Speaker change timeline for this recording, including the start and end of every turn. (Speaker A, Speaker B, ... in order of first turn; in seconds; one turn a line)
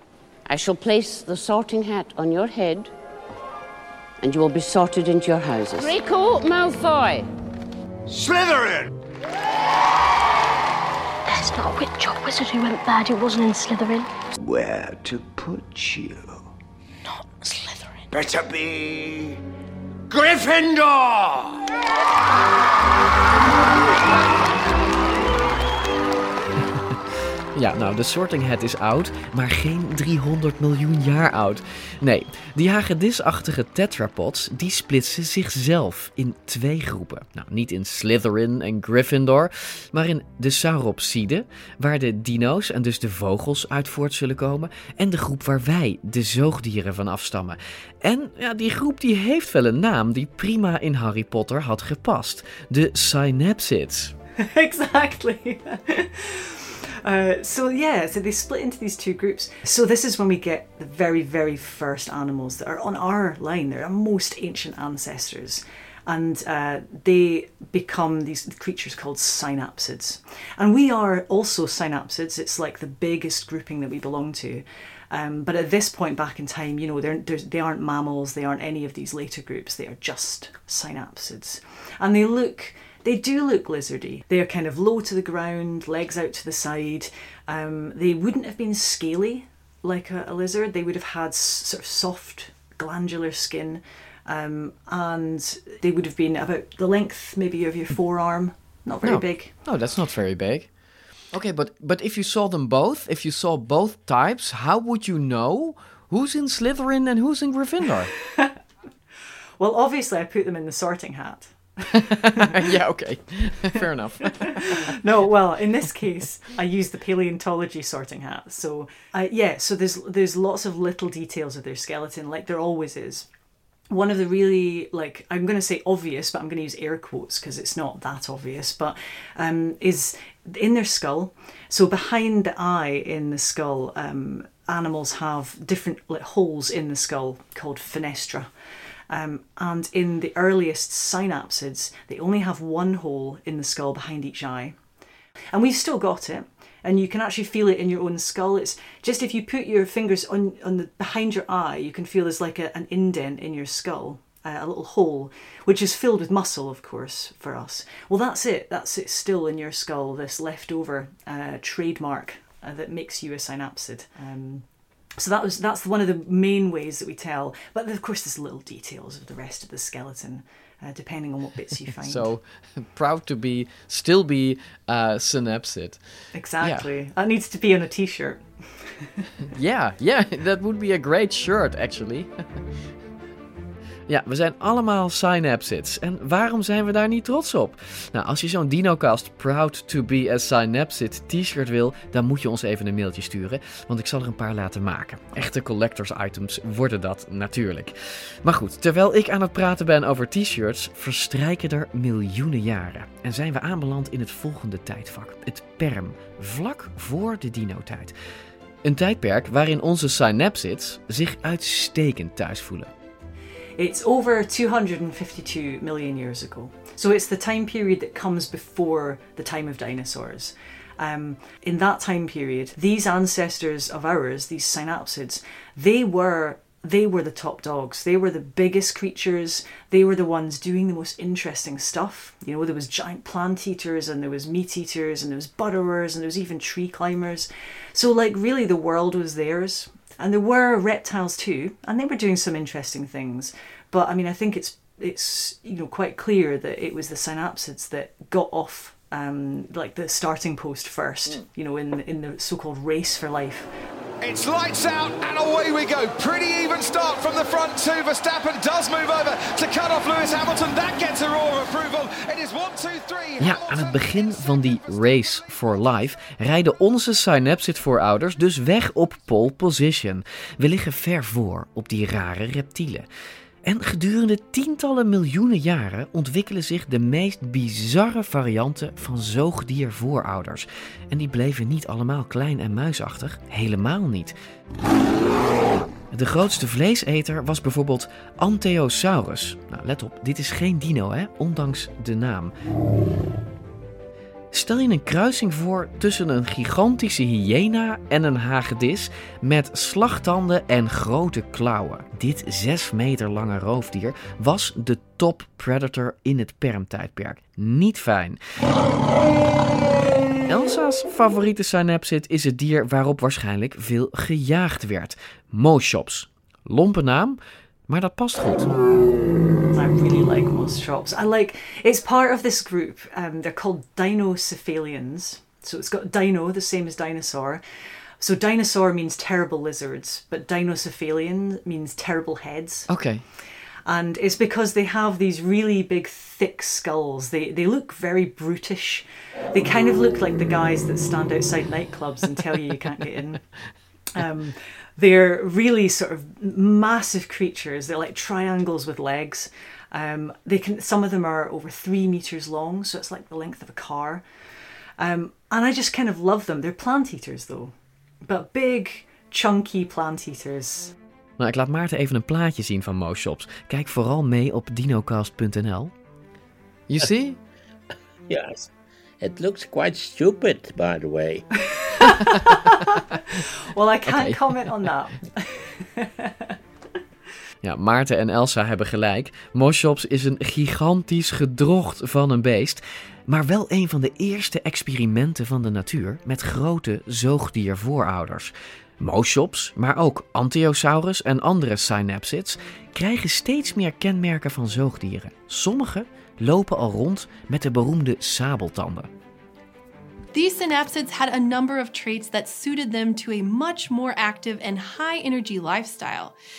Speaker A: 0.5-2.9
Speaker A: 4.2-7.3
Speaker B: 8.1-8.9
Speaker C: 11.3-14.1
Speaker B: 14.4-16.4
Speaker C: 17.2-17.9
Speaker B: 18.1-19.4
Speaker B: 20.1-21.6
Speaker D: 26.6-54.1
Speaker E: 54.4-99.5
Speaker D: 99.0-100.7
Speaker D: 101.3-108.1
Speaker E: 108.2-108.6
Speaker E: 109.6-112.5
Speaker D: 111.9-115.0
Speaker E: 114.5-123.3
Speaker E: 123.9-138.5
Speaker E: 139.1-144.8
Speaker E: 145.5-164.7
Speaker E: 165.2-172.3
Speaker D: 172.0-176.0
Speaker E: 176.3-179.3
Speaker D: 176.6-176.9
Speaker D: 179.5-182.3
Speaker D: 184.1-208.2
Speaker D: 208.8-212.9
Speaker E: 213.8-253.7
Speaker F: 254.2-264.3
Speaker D: 263.4-273.1
Speaker D: 273.6-284.4
Speaker D: 286.1-292.5
Speaker D: 294.5-308.4
Speaker D: 310.5-318.7
Speaker E: 319.7-327.6
Speaker E: 328.2-332.9
Speaker D: 332.9-333.2
Speaker E: 333.9-343.4
Speaker E: 344.1-354.2
Speaker E: 355.0-357.7
Speaker E: 358.2-360.9
Speaker D: 361.4-365.9
Speaker D: 366.9-367.4
Speaker G: 368.3-368.7
Speaker G: 369.2-371.5
Speaker E: 371.7-376.5
Speaker D: 374.1-374.9
Speaker D: 377.6-399.1
Speaker H: 400.3-406.4